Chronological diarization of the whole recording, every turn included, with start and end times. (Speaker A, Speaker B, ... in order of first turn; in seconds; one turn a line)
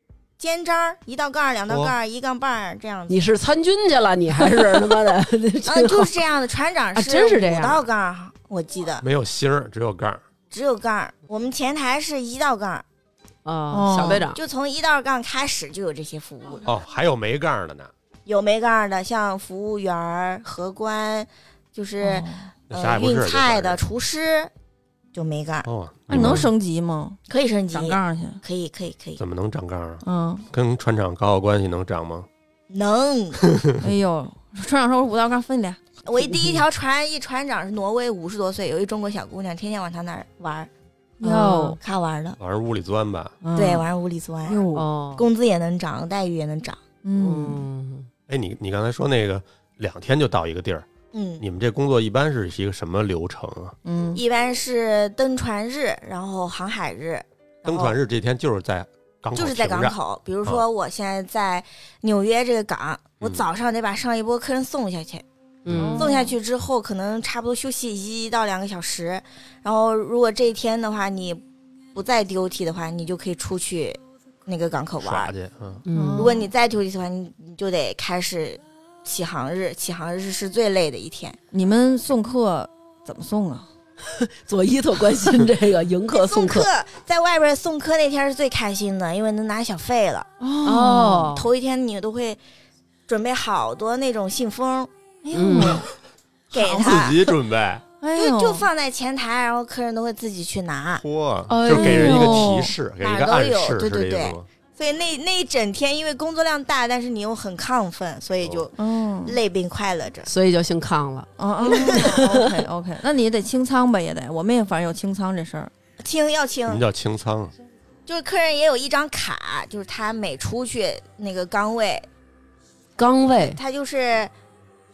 Speaker A: 0.4-3.3
Speaker B: 1.7-1.9
Speaker C: 3.1-6.1
Speaker A: 5.6-9.0
Speaker C: 6.9-7.9
Speaker B: 9.0-10.2
Speaker A: 10.5-12.8
Speaker C: 13.4-14.4
Speaker D: 13.7-14.3
Speaker A: 14.0-16.7
Speaker B: 16.6-17.9
Speaker A: 18.2-24.5
Speaker D: 22.0-22.5
Speaker B: 22.7-23.8
Speaker A: 25.1-25.7
Speaker B: 25.6-26.5
Speaker D: 26.1-27.2
Speaker A: 27.3-29.2
Speaker D: 27.7-28.4
Speaker B: 29.2-32.3
Speaker D: 30.0-30.4
Speaker A: 32.7-33.4
Speaker B: 33.4-33.8
Speaker D: 33.8-35.8
Speaker A: 36.0-40.7
Speaker C: 36.3-36.6
Speaker D: 41.2-41.8
Speaker A: 41.2-42.4
Speaker B: 42.4-43.4
Speaker D: 43.4-43.9
Speaker A: 43.5-46.8
Speaker D: 44.5-44.9
Speaker C: 44.7-45.2
Speaker D: 47.0-47.6
Speaker C: 47.2-48.1
Speaker B: 48.3-50.9
Speaker A: 51.1-51.4
Speaker B: 51.4-53.7
Speaker D: 53.8-54.2
Speaker A: 54.1-58.0
Speaker B: 57.6-60.6
Speaker A: 59.3-65.2
Speaker C: 65.6-66.1
Speaker D: 65.7-66.3
Speaker A: 66.0-71.4
Speaker A: 71.9-75.3
Speaker B: 75.0-75.8
Speaker C: 75.8-76.3
Speaker D: 75.9-76.5
Speaker A: 76.1-81.4
Speaker D: 81.5-83.7
Speaker C: 84.0-86.7
Speaker A: 86.1-90.3
Speaker D: 90.4-91.3
Speaker C: 90.6-91.5
Speaker A: 91.3-92.4
Speaker A: 93.1-94.9
Speaker D: 95.2-95.8
Speaker C: 95.3-95.8
Speaker A: 96.5-97.2
Speaker D: 96.5-97.0
Speaker B: 96.7-97.8
Speaker D: 98.0-98.7
Speaker A: 98.1-101.0
Speaker B: 101.0-104.5
Speaker C: 101.5-102.5
Speaker D: 101.7-102.7
Speaker A: 103.0-110.3
Speaker B: 108.4-108.7
Speaker D: 108.8-109.4
Speaker C: 110.2-112.6
Speaker D: 111.4-115.7
Speaker A: 111.6-112.2
Speaker A: 116.0-116.8
Speaker B: 116.7-117.5
Speaker A: 118.1-122.1
Speaker C: 123.0-123.6
Speaker A: 123.4-124.3